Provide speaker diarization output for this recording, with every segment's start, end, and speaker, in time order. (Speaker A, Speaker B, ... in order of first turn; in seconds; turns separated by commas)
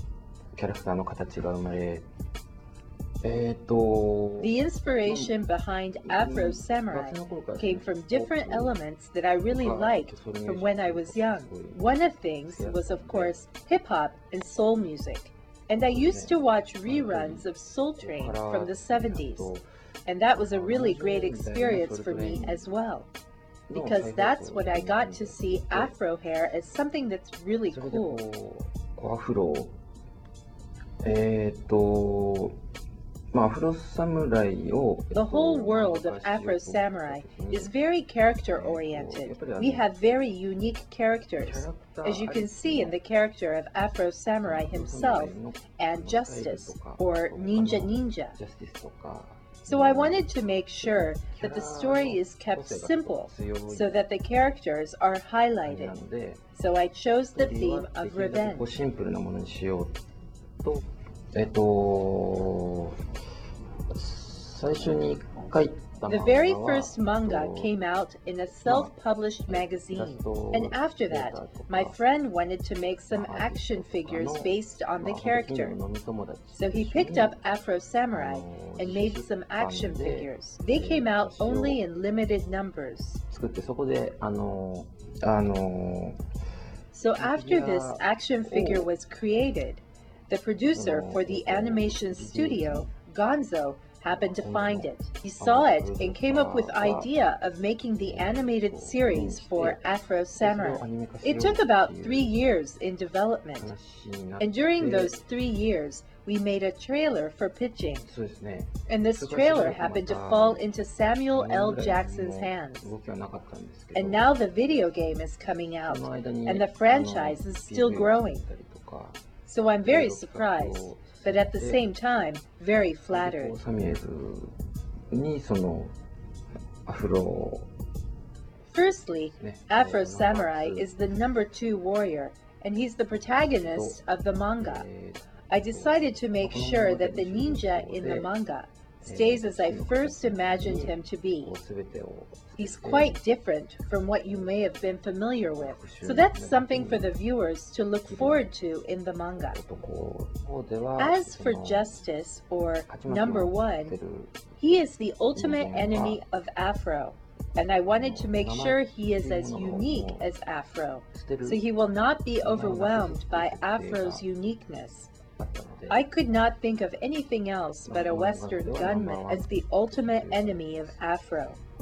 Speaker A: 0.6-2.1, Speaker A: 3.2-5.4, Speaker B: 4.4-19.5, Speaker A: 6.0-8.8, Speaker A: 9.4-11.8, Speaker A: 12.5-13.4, Speaker A: 15.8-17.5, Speaker A: 18.0-19.6, Speaker B: 20.1-23.1, Speaker A: 20.4-22.7, Speaker A: 23.7-26.0, Speaker B: 23.7-28.2, Speaker A: 27.7-29.8, Speaker A: 31.0-32.6, Speaker A: 33.3-37.7, Speaker B: 35.1-48.4, Speaker A: 38.5-39.9, Speaker A: 41.4-43.0, Speaker A: 44.4-50.3, Speaker B: 49.6-56.0, Speaker A: 50.8-54.0, Speaker A: 55.6-56.5, Speaker B: 56.5-58.7, Speaker A: 57.3-60.0, Speaker A: 60.6-63.0, Speaker A: 63.9-67.7, Speaker B: 66.1-75.8, Speaker A: 68.6-68.9, Speaker A: 69.5-72.0, Speaker A: 73.1-77.4, Speaker B: 76.5-83.2, Speaker A: 78.1-81.8, Speaker A: 83.3-86.2, Speaker B: 86.9-103.7, Speaker A: 87.2-88.9, Speaker A: 90.7-92.9, Speaker A: 94.1-97.1, Speaker A: 98.0-102.4, Speaker A: 103.6-105.2, Speaker B: 104.4-108.0, Speaker A: 108.0-110.7, Speaker B: 108.9-112.9, Speaker A: 111.3-114.4, Speaker B: 114.0-118.4, Speaker A: 115.8-119.2, Speaker B: 119.5-123.6, Speaker A: 119.8-121.9, Speaker A: 122.7-124.5, Speaker A: 125.1-126.0, Speaker A: 126.9-127.7, Speaker B: 128.7-134.9, Speaker A: 129.3-130.9, Speaker A: 133.6-134.0, Speaker A: 134.6-138.3, Speaker B: 135.5-141.5, Speaker A: 139.0-143.2, Speaker B: 142.6-149.6, Speaker A: 144.2-144.6, Speaker A: 145.5-147.2, Speaker A: 148.1-148.5, Speaker A: 149.5-152.0, Speaker B: 151.0-153.9, Speaker A: 152.9-154.6, Speaker B: 154.6-165.1, Speaker A: 155.3-156.2, Speaker A: 157.9-160.3, Speaker A: 161.1-161.6, Speaker A: 162.4-164.2, Speaker A: 165.4-166.1, Speaker B: 165.9-171.6, Speaker A: 167.9-171.0